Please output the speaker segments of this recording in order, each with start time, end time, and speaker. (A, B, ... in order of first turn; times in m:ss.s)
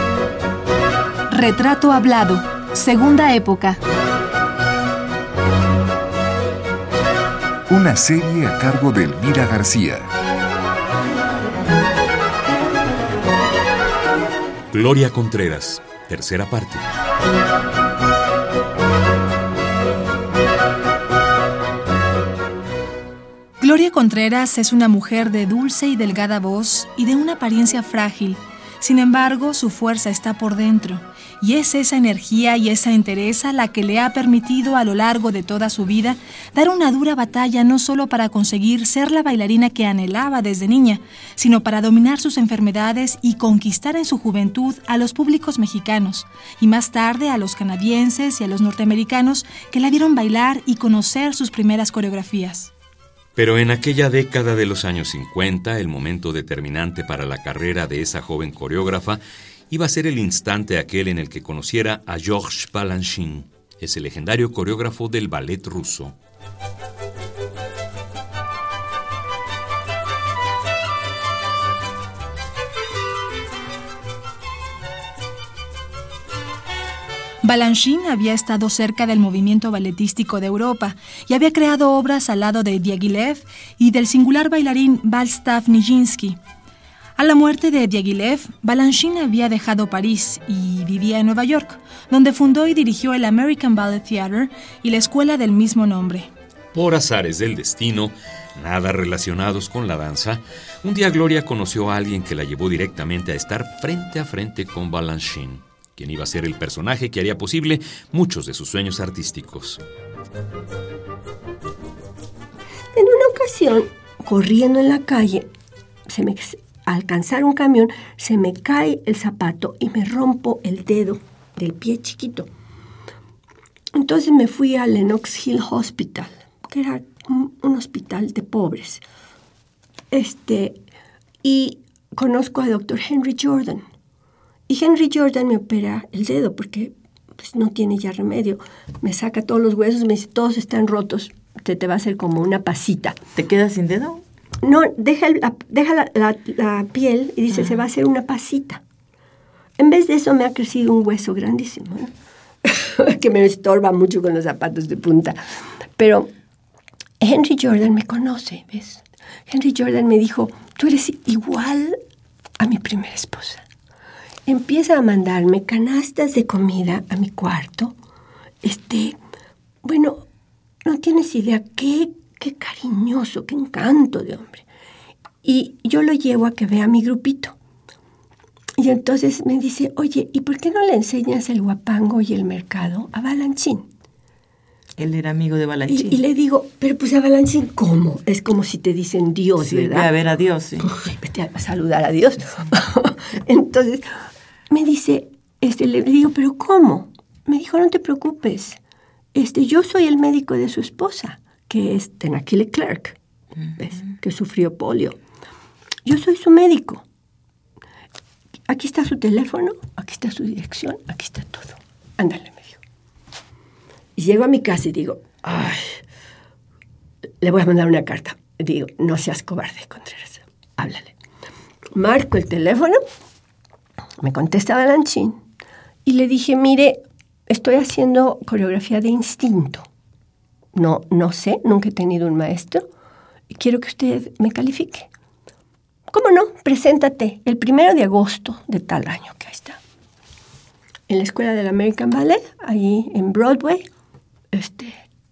0:01.3-0:03.8 A
0:07.7-0:10.1 B
0:14.7-0:16.8 C
0:23.6-0:52.7 A
0:53.4-1:06.2 C
1:17.4-1:26.4 A
1:27.2-1:36.3 A
1:36.7-1:49.8 C
1:53.0-1:55.5 D
1:56.1-2:02.5 D
2:03.9-2:09.0 D
2:10.1-2:10.8 D
2:11.4-2:13.9 D
2:14.7-2:23.2 D
2:23.4-2:24.2 E
2:24.6-2:28.8 D
2:29.8-2:32.1 D
2:32.6-2:36.3 D
2:37.2-2:42.0 D
2:42.6-2:43.7 D
2:44.5-2:48.0 D
2:48.6-2:49.2 D
2:49.8-2:50.2 D
2:50.8-2:54.6 D
2:55.4-2:57.6 D
2:58.8-3:03.9 D
3:05.0-3:06.2 E
3:05.9-3:10.1 D
3:09.6-3:10.9 E
3:10.8-3:14.2 D
3:14.7-3:18.8 D
3:19.4-3:23.2 D
3:23.7-3:25.2 D
3:26.0-3:27.0 D
3:28.7-3:32.8 D
3:34.2-3:36.0 D
3:37.4-3:41.2 D
3:42.0-3:43.0 D
3:44.2-3:45.4 D
3:46.0-3:49.9 D
3:50.7-3:52.8 D
3:53.5-3:55.1 D
3:56.1-3:59.8 D
4:01.1-4:03.9 D
4:04.5-4:05.0 D